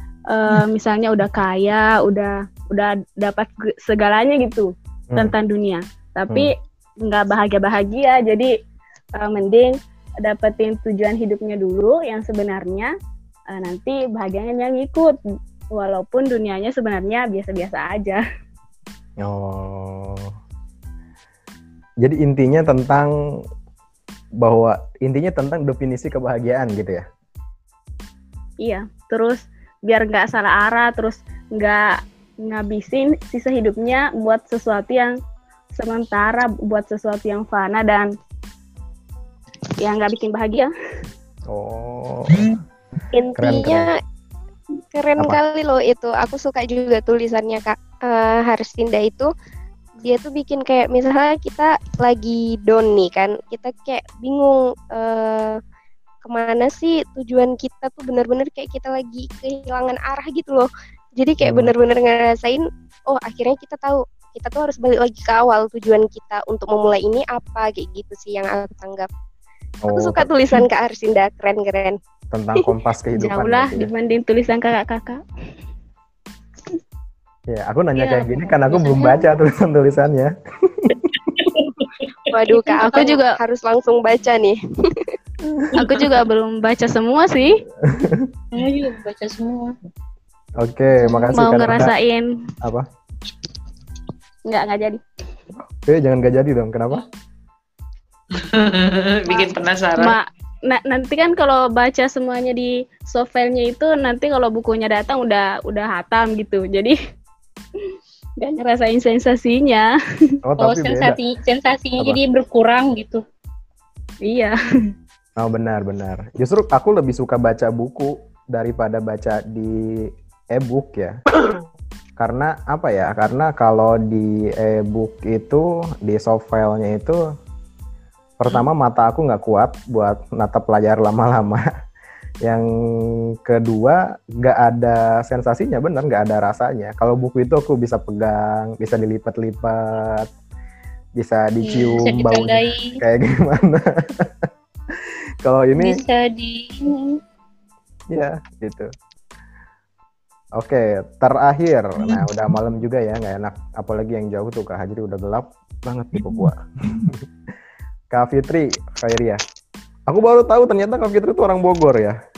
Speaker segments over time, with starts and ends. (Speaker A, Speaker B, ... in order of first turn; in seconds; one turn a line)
Speaker A: 0.3-6.5
Speaker A: 7.0-8.5
Speaker A: 9.2-12.9
Speaker A: 13.5-15.2
Speaker A: 15.7-18.2
Speaker B: 19.2-20.3
Speaker B: 22.0-23.1
Speaker B: 24.4-27.1
Speaker A: 28.6-35.1
Speaker A: 35.8-38.1
Speaker A: 39.8-40.7
Speaker B: 41.5-42.6
Speaker C: 43.1-43.9
Speaker B: 43.4-43.9
Speaker C: 44.9-49.3
Speaker C: 50.0-55.6
Speaker C: 56.2-60.7
Speaker C: 61.2-69.1
Speaker B: 61.4-61.7
Speaker B: 69.8-70.3
Speaker C: 69.9-72.0
Speaker B: 72.3-73.9
Speaker A: 73.2-75.2
Speaker B: 77.5-81.1
Speaker D: 78.0-79.3
Speaker E: 81.4-81.9
Speaker C: 82.3-84.6
Speaker D: 82.6-83.2
Speaker A: 83.0-83.3
Speaker B: 85.5-85.8
Speaker A: 85.8-87.5
Speaker B: 87.9-88.3
Speaker D: 88.5-89.8
Speaker B: 90.6-91.9
Speaker A: 91.0-92.3
Speaker A: 94.5-95.0
Speaker B: 95.6-97.0
Speaker E: 98.4-100.2
Speaker A: 100.0-107.0
Speaker A: 108.4-109.9
Speaker B: 110.5-111.2
Speaker D: 110.6-113.2
Speaker A: 114.2-114.6
Speaker B: 115.4-121.2
Speaker B: 122.2-127.2
Speaker B: 128.4-131.6
Speaker B: 133.4-140.3
Speaker B: 141.2-143.8
Speaker D: 141.6-143.0
Speaker B: 145.4-146.0
Speaker D: 145.8-147.2
Speaker B: 148.1-148.9
Speaker B: 150.6-157.2
Speaker B: 158.1-159.4
Speaker B: 160.1-162.2